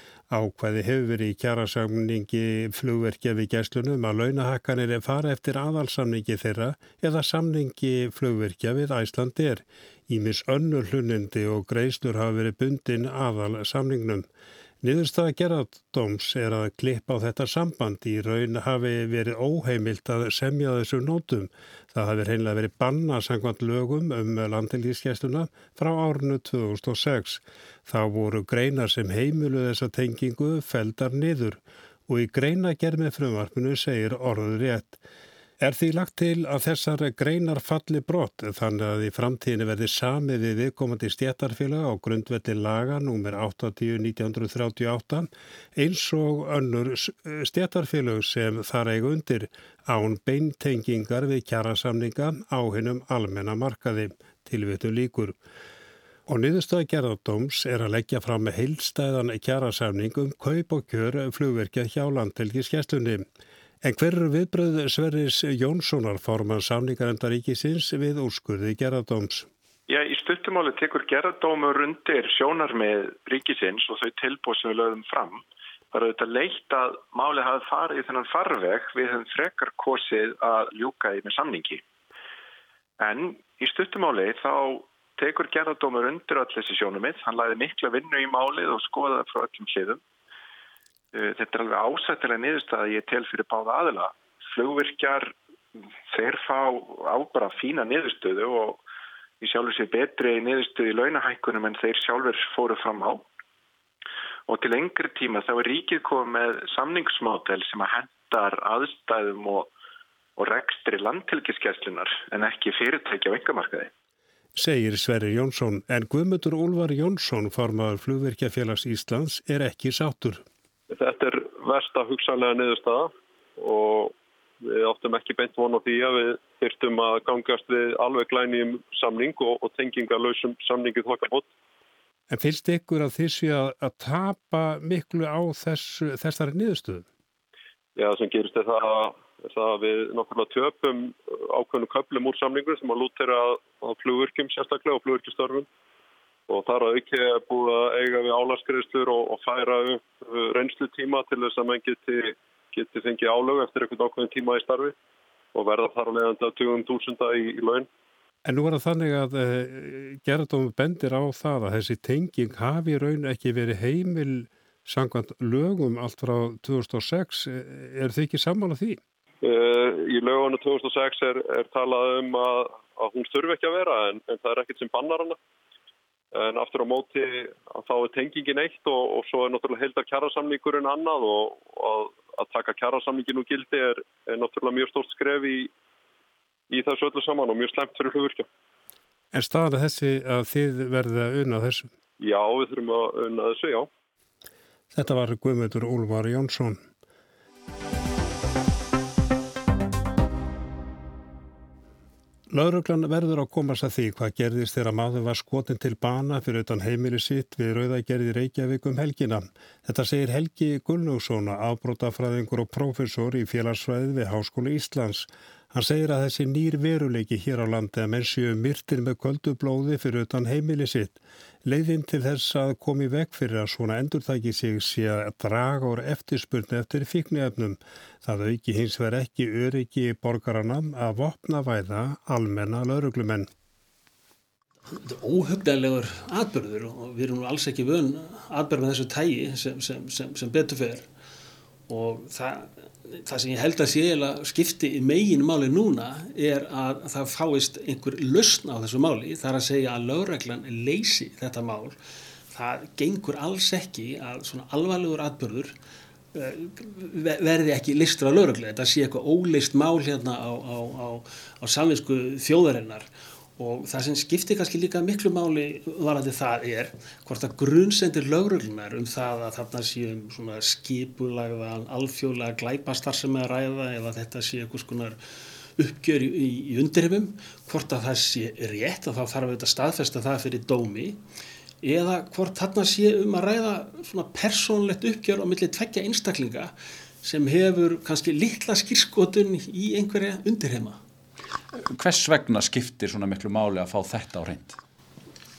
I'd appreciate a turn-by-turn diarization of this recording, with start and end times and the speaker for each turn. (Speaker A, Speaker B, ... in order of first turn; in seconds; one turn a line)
Speaker A: 0.3-14.3
Speaker A: 14.8-35.0
Speaker A: 35.6-55.4
Speaker A: 56.3-63.2
Speaker A: 63.8-69.5
Speaker B: 69.9-81.8
Speaker B: 83.0-90.0
Speaker B: 91.1-95.3
Speaker B: 96.1-98.8
Speaker B: 99.4-103.2
Speaker B: 104.5-109.7
Speaker B: 110.4-113.9
Speaker A: 114.6-120.4
Speaker C: 120.9-131.5
Speaker A: 132.3-137.1
Speaker C: 138.0-145.7
Speaker C: 146.5-154.9
Speaker C: 155.5-157.9
Speaker A: 158.4-169.0
Speaker C: 169.4-175.4
Speaker C: 176.3-185.7
Speaker C: 186.7-188.5
Speaker A: 189.3-191.9
Speaker C: 192.2-193.9
Speaker A: 194.9-196.8
Speaker A: 202.5-233.5
Speaker D: 234.9-241.1
Speaker D: 241.9-251.9
Speaker D: 252.5-255.7
Speaker D: 256.3-263.1
Speaker D: 263.6-275.2
Speaker D: 275.8-281.2
Speaker D: 281.8-286.7
Speaker D: 287.2-291.0
Speaker E: 291.9-294.8